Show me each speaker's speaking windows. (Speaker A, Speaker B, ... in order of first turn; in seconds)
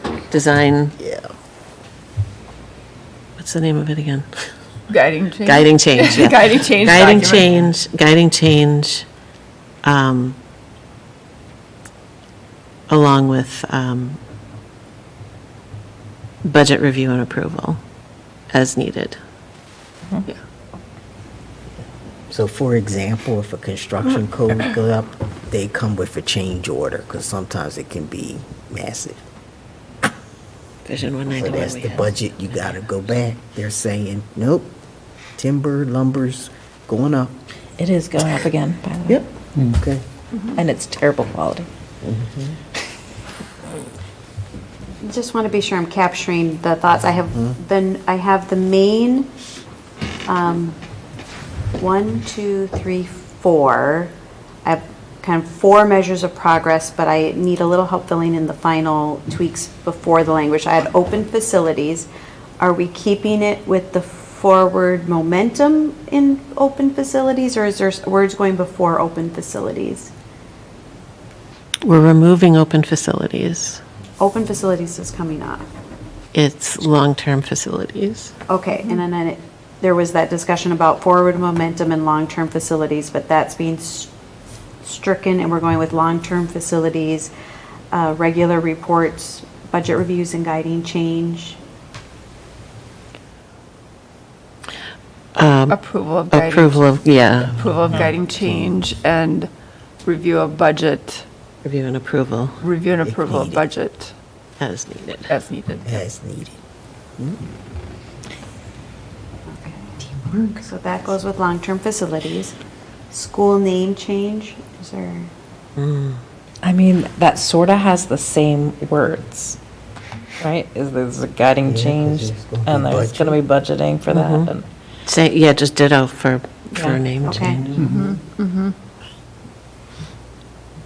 Speaker A: 0.3-1.0, 3.4-4.3, 5.5-9.1, 9.8-10.4, 12.9-14.2, 16.4-17.8, 18.5-19.2, 30.9-32.9, 71.8-73.8, 76.3-78.3, 95.4-95.8, 96.3-97.7, 101.6-102.6, 104.6-105.3, 115.8-116.2, 124.1-124.5, 125.1-127.8
Speaker B: 1.0-1.3, 22.3-29.2, 31.4-34.7, 35.4-37.3, 39.1-40.0, 42.0-42.6, 103.0-103.7, 105.8-106.6, 121.7-123.4
Speaker C: 4.9-7.7, 40.3-40.6, 95.7-96.9, 97.4-99.5, 100.0-101.2, 102.6-104.1, 105.3-105.9, 127.8-128.8
Speaker D: 37.8-39.2, 40.5-41.7, 110.2-110.6, 116.6-119.6, 120.4-124.7
Speaker E: 45.0-49.3, 50.3-50.8, 51.8-54.1, 54.6-62.1, 62.6-70.1, 74.2-75.7, 78.5-84.1, 84.8-87.3, 87.9-91.6, 109.5-112.5, 113.1-115.3, 127.2-127.7